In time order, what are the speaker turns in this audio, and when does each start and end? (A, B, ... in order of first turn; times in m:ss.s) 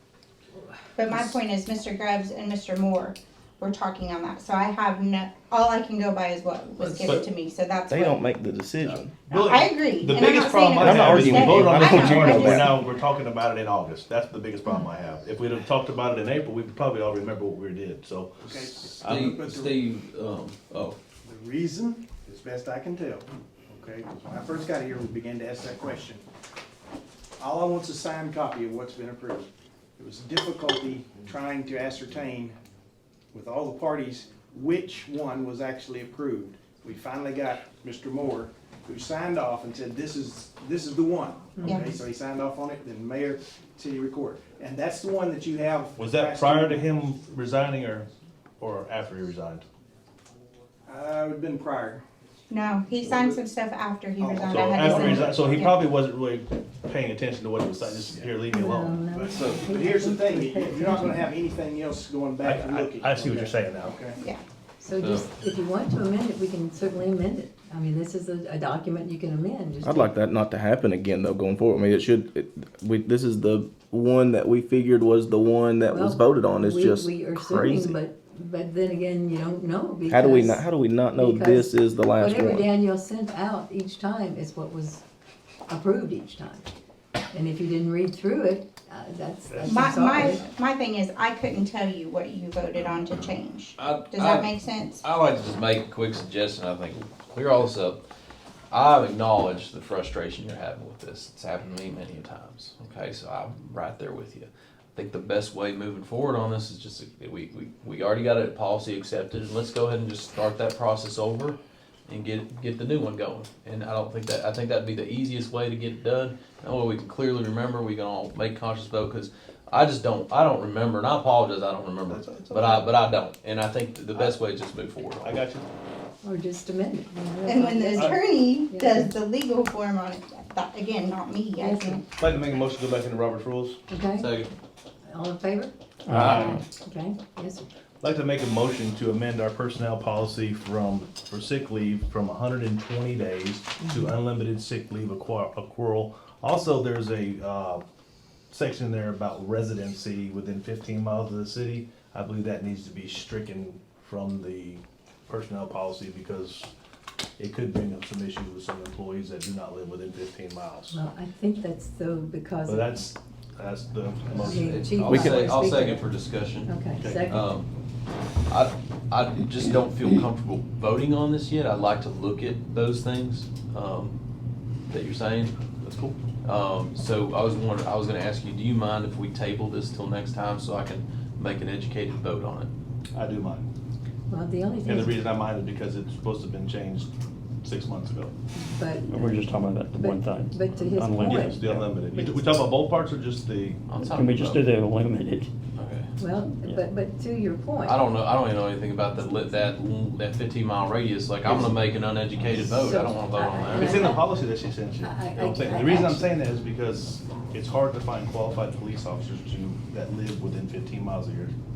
0:01.0-0:08.2 A
0:07.9-0:09.2 B
0:08.9-0:19.3 C
0:09.3-0:12.8 A
0:10.8-0:12.7 B
0:18.4-0:19.8 D
0:18.8-0:21.0 E
0:21.2-0:26.2 D
0:27.4-0:32.6 D
0:33.3-0:46.8 D
0:41.6-0:41.8 F
0:41.6-0:41.9 A
0:46.0-0:48.1 C
0:48.6-0:49.6 C
0:50.9-0:52.0 D
0:52.5-0:55.9 A
0:53.0-0:53.4 D
0:54.2-0:55.6 D
0:54.5-0:59.0 C
0:58.5-1:01.3 F
0:59.1-1:04.2 D
1:02.4-1:04.0 C
1:04.2-1:04.4 A
1:04.8-1:10.1 F
1:05.0-1:05.3 E
1:09.8-1:18.0 B
1:15.9-1:25.0 F
1:20.1-1:22.8 B
1:25.7-1:26.7 F
1:27.3-1:30.4 F
1:29.6-1:35.0 A
1:33.8-1:38.0 E
1:38.7-1:51.6 E
1:52.1-2:05.4 E
2:02.1-2:02.9 C
2:05.2-2:05.7 C
2:06.2-2:09.1 F
2:07.5-2:12.0 A
2:11.6-2:12.0 F
2:12.2-2:13.8 C
2:13.9-2:14.4 F
2:14.2-2:14.5 E
2:15.1-2:17.7 F
2:16.1-2:16.6 G
2:16.1-2:16.6 C
2:18.0-2:27.8 C
2:28.5-2:36.7 C
2:37.4-2:41.0 C
2:40.9-2:43.1 F
2:42.7-2:45.4 C
2:44.4-2:46.1 F
2:44.4-2:46.7 E
2:46.6-2:47.5 F
2:47.0-2:47.3 C
2:47.3-2:47.7 E
2:48.5-2:54.2 E
2:54.9-3:02.7 E
3:03.2-3:03.7 C
3:04.3-3:05.2 F
3:04.8-3:07.1 C
3:07.6-3:08.3 C
3:08.6-3:12.7 F
3:09.1-3:11.8 G
3:11.3-3:13.8 C
3:13.9-3:14.7 E
3:14.1-3:15.5 G
3:15.8-3:16.1 E
3:16.2-3:18.0 F
3:17.8-3:24.1 E
3:21.4-3:21.8 C
3:22.4-3:22.9 C
3:22.7-3:24.5 F
3:23.7-3:31.5 C
3:25.0-3:26.3 F